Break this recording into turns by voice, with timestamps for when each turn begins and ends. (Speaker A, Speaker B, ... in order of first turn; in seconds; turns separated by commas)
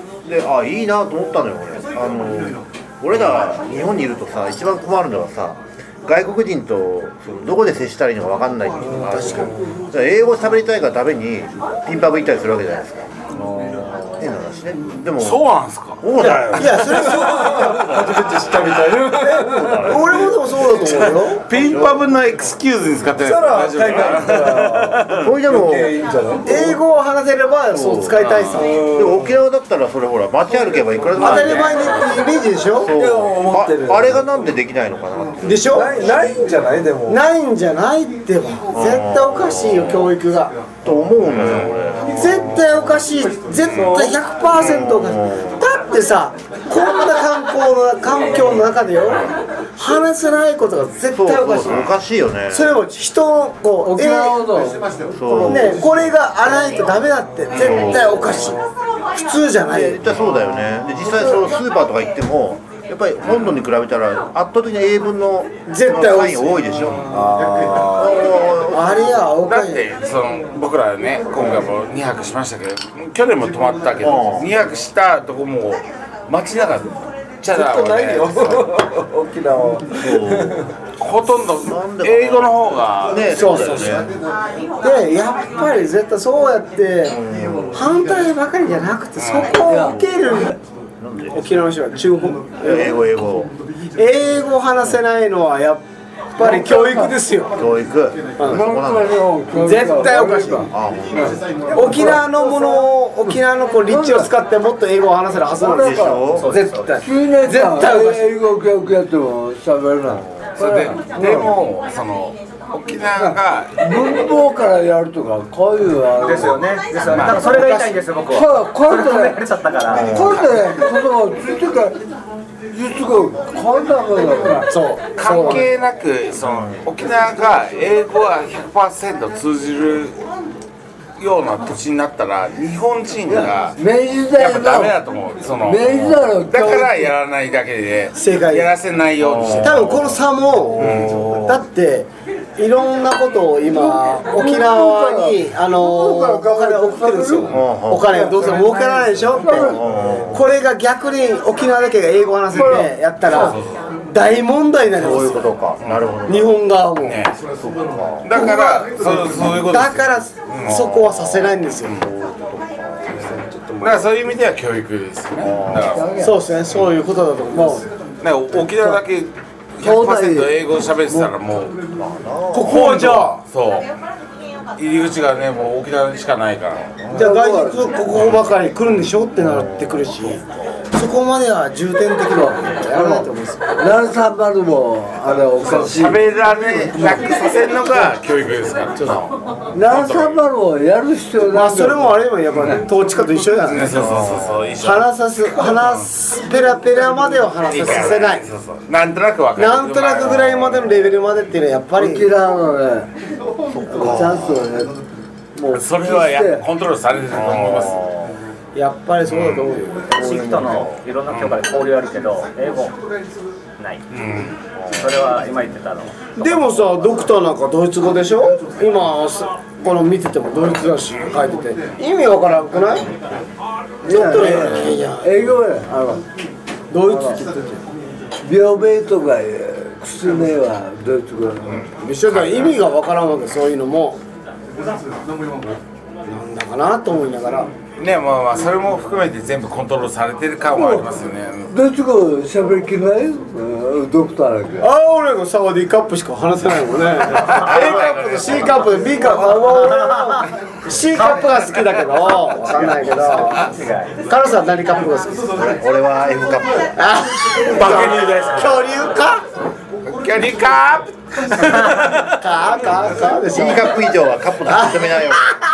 Speaker A: 0.2-15.4, Speaker B: 8.9-9.7, Speaker C: 9.0-9.5, Speaker D: 15.2-16.9, Speaker A: 16.0-17.1, Speaker C: 16.3-18.2, Speaker B: 16.9-20.2, Speaker C: 19.2-21.4, Speaker A: 19.4-20.2, Speaker D: 21.4-25.3, Speaker A: 21.6-22.0, Speaker B: 23.1-26.8, Speaker A: 25.1-25.9, Speaker C: 26.4-28.9, Speaker A: 27.7-32.1, Speaker D: 28.2-28.6, Speaker B: 28.6-29.3, Speaker C: 31.2-32.9, Speaker D: 31.2-32.1, Speaker A: 32.8-36.2, Speaker B: 32.9-34.2, Speaker C: 35.4-36.0, Speaker B: 35.7-37.2, Speaker C: 37.1-40.5, Speaker A: 38.7-40.1, Speaker A: 40.8-42.9, Speaker D: 41.4-41.7, Speaker C: 42.0-51.9, Speaker B: 43.7-44.2, Speaker A: 44.5-45.6, Speaker A: 51.1-52.8, Speaker C: 52.5-54.4, Speaker E: 53.8-55.7, Speaker A: 55.1-55.9, Speaker C: 55.4-60.0, Speaker A: 57.5-58.5, Speaker D: 57.5-58.0, Speaker A: 59.7-69.2, Speaker C: 65.7-66.8, Speaker C: 68.7-69.9, Speaker D: 69.5-78.7, Speaker A: 74.0-74.5, Speaker B: 77.5-80.7, Speaker A: 80.0-80.7, Speaker D: 81.0-84.0, Speaker A: 81.4-84.1, Speaker C: 83.3-84.0, Speaker C: 84.8-87.2, Speaker A: 87.1-87.8, Speaker C: 87.7-90.6, Speaker D: 89.2-89.6, Speaker E: 89.6-90.0, Speaker A: 89.8-90.2, Speaker A: 91.0-91.5, Speaker C: 91.3-93.0, Speaker A: 92.6-93.5, Speaker C: 94.0-95.8, Speaker C: 96.3-97.6, Speaker E: 96.4-97.1, Speaker A: 97.6-99.2, Speaker C: 98.4-98.7, Speaker E: 98.5-104.3, Speaker C: 99.5-100.7, Speaker A: 100.7-101.4, Speaker C: 101.7-108.3, Speaker E: 105.6-106.4, Speaker A: 105.8-106.5, Speaker F: 106.4-107.0, Speaker E: 107.0-111.5, Speaker A: 110.1-110.5, Speaker D: 110.6-114.2, Speaker E: 113.2-116.6, Speaker F: 116.2-120.2, Speaker D: 117.1-117.7, Speaker C: 117.4-117.9, Speaker E: 118.3-119.4, Speaker A: 119.9-120.6, Speaker E: 119.9-122.0, Speaker E: 122.7-124.7, Speaker C: 124.6-125.7, Speaker D: 125.2-130.2, Speaker A: 126.4-126.9, Speaker D: 131.2-133.8, Speaker E: 133.3-134.9, Speaker D: 134.3-140.1, Speaker E: 135.6-137.1, Speaker C: 138.1-138.7, Speaker A: 139.2-140.2, Speaker C: 139.6-153.6, Speaker A: 140.8-141.6, Speaker D: 140.8-141.1, Speaker E: 143.7-150.2, Speaker A: 147.5-148.3, Speaker A: 149.5-150.5, Speaker E: 152.5-153.6, Speaker D: 152.6-153.9, Speaker C: 154.1-155.6, Speaker A: 154.9-156.6, Speaker D: 155.8-156.2, Speaker C: 156.3-157.2, Speaker D: 157.0-157.4, Speaker A: 157.6-158.4, Speaker D: 158.2-162.1, Speaker C: 158.3-162.0, Speaker A: 161.9-163.4, Speaker B: 163.2-164.1, Speaker D: 163.8-166.1, Speaker A: 165.4-166.0, Speaker E: 165.8-166.4, Speaker C: 166.2-167.9, Speaker E: 167.5-167.8, Speaker D: 168.2-171.8, Speaker E: 169.8-171.3, Speaker A: 171.9-172.9, Speaker C: 172.5-173.4, Speaker D: 172.6-173.9, Speaker D: 174.8-176.9, Speaker C: 177.1-180.4, Speaker E: 177.1-177.9, Speaker A: 179.4-180.7, Speaker C: 180.9-183.7, Speaker E: 182.3-186.3, Speaker D: 185.6-190.4, Speaker E: 186.9-187.3, Speaker C: 189.0-189.2, Speaker E: 189.7-192.8, Speaker C: 191.5-194.0, Speaker D: 193.6-196.1, Speaker A: 193.8-194.8, Speaker C: 194.8-198.5, Speaker D: 197.7-201.0, Speaker C: 199.6-202.3, Speaker E: 202.0-203.1, Speaker A: 203.7-204.7, Speaker E: 203.9-204.9, Speaker E: 205.6-206.7, Speaker D: 205.7-208.0, Speaker A: 207.3-208.4, Speaker C: 208.8-210.6, Speaker D: 209.3-209.6, Speaker F: 210.1-212.9, Speaker A: 210.2-211.0, Speaker D: 211.3-211.6, Speaker F: 213.8-214.1, Speaker D: 214.1-214.6, Speaker A: 214.8-215.1, Speaker F: 214.9-216.5, Speaker C: 216.4-223.1, Speaker E: 224.0-226.2, Speaker C: 224.1-225.4, Speaker C: 226.9-227.8, Speaker E: 227.0-227.4, Speaker E: 228.4-231.9, Speaker D: 231.7-232.7, Speaker C: 232.0-234.2, Speaker C: 236.3-237.7, Speaker D: 238.0-241.7, Speaker E: 240.7-241.1, Speaker E: 241.7-244.9, Speaker C: 244.8-253.7, Speaker D: 247.3-249.0, Speaker A: 247.7-248.1, Speaker F: 249.3-250.5, Speaker F: 251.1-251.8, Speaker F: 253.1-254.2, Speaker C: 254.3-255.8, Speaker A: 255.6-257.0, Speaker C: 256.9-259.4, Speaker D: 257.6-258.8, Speaker D: 260.2-262.4, Speaker C: 262.4-265.6, Speaker A: 263.5-265.5